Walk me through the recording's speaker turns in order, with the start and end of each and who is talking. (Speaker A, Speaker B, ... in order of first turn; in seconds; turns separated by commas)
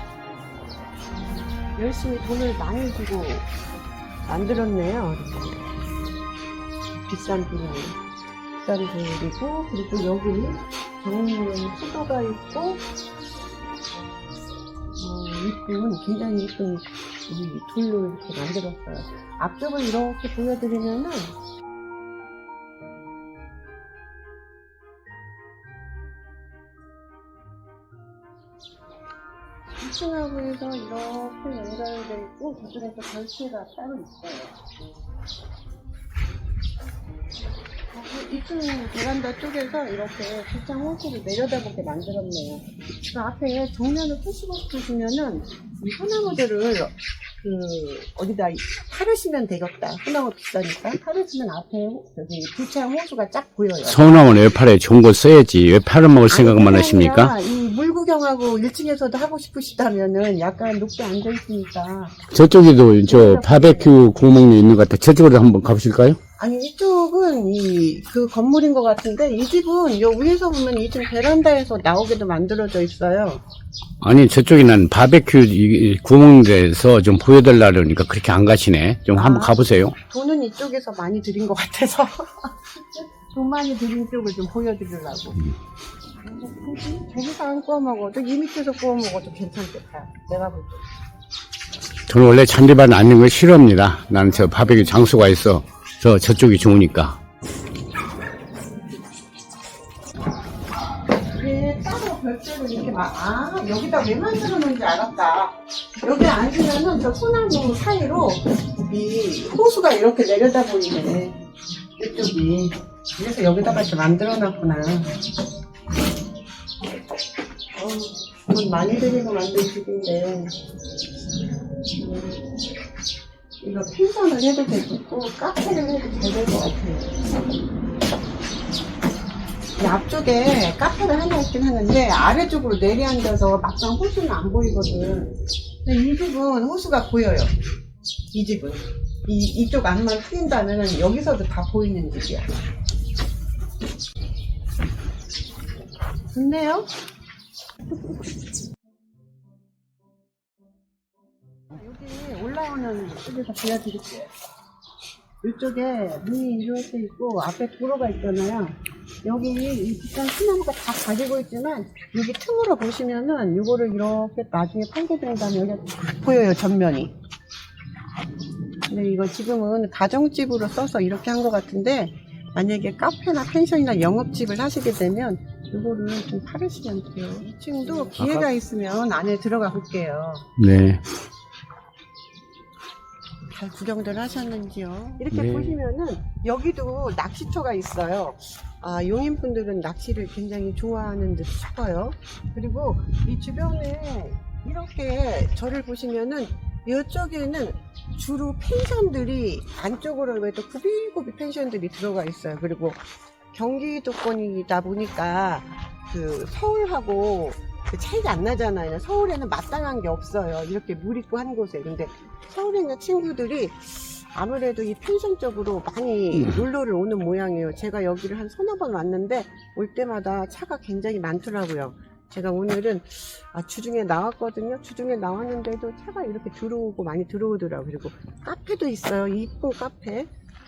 Speaker A: 1.3-3.5, Speaker A: 4.3-5.6, Speaker A: 7.0-8.0, Speaker A: 8.6-12.8, Speaker A: 15.0-21.4, Speaker A: 29.8-34.6, Speaker A: 37.9-54.4, Speaker B: 53.9-57.4, Speaker A: 56.3-62.2, Speaker B: 62.3-66.2, Speaker A: 63.1-63.9, Speaker A: 66.4-73.4, Speaker B: 74.0-80.0, Speaker A: 79.2-79.6, Speaker A: 80.1-85.5, Speaker A: 86.2-90.8, Speaker B: 92.1-97.2, Speaker A: 94.4-94.9, Speaker A: 101.3-111.4, Speaker A: 112.0-115.1, Speaker A: 117.8-120.5, Speaker A: 123.6-127.1, Speaker A: 129.8-137.5, Speaker A: 138.3-142.5, Speaker A: 146.3-146.9, Speaker A: 151.7-154.3, Speaker A: 155.4-167.1, Speaker A: 168.9-180.5, Speaker B: 177.8-178.5, Speaker B: 180.6-181.0, Speaker A: 183.5-230.3, Speaker B: 185.3-185.8